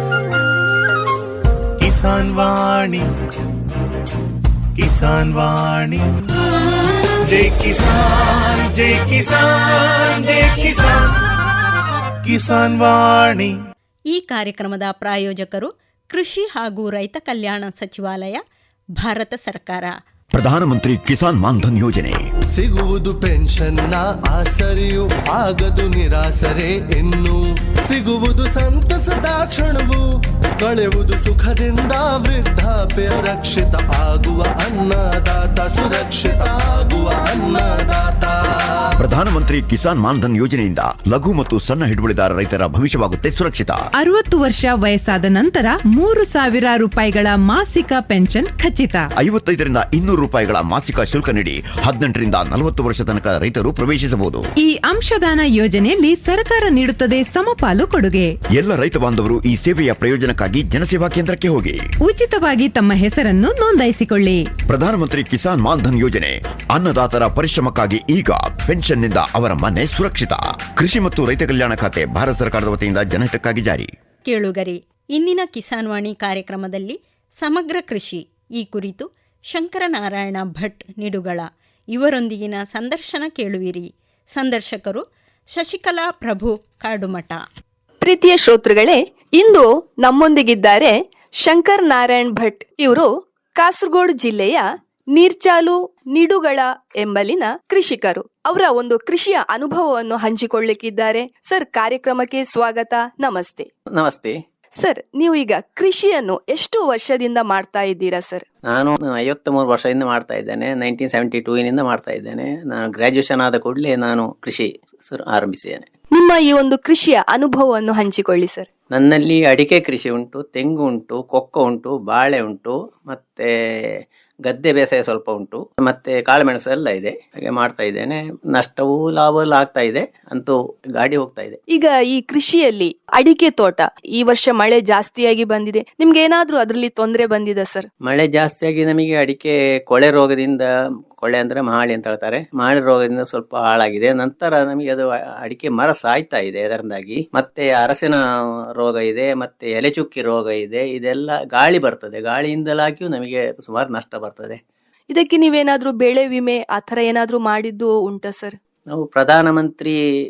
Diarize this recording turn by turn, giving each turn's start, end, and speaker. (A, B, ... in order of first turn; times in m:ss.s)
0:01.8-0:03.1 A
0:04.8-0:06.1 A
0:07.2-0:11.2 A
0:12.2-0:13.5 A
0:14.1-0:18.4 B
0:19.0-0:19.9 B
0:20.3-0:22.2 C
0:22.5-0:30.0 D
0:30.6-0:38.4 D
0:39.0-0:43.8 C
0:44.0-0:49.1 E
0:49.2-0:54.4 C
0:54.6-0:58.3 E
0:58.6-1:01.8 C
1:02.0-1:04.4 E
1:04.7-1:13.9 C
1:14.2-1:25.0 B
1:25.5-1:27.4 B
1:28.0-1:43.7 F
1:44.0-1:44.4 G
1:44.8-1:48.4 F
1:48.7-1:55.9 G
1:56.1-1:58.7 F
1:58.9-2:11.6 G
2:11.7-2:17.9 F
2:18.1-2:20.6 G
2:21.2-2:28.2 G
2:28.8-2:34.6 G
2:35.1-2:38.5 F
2:38.9-2:39.9 G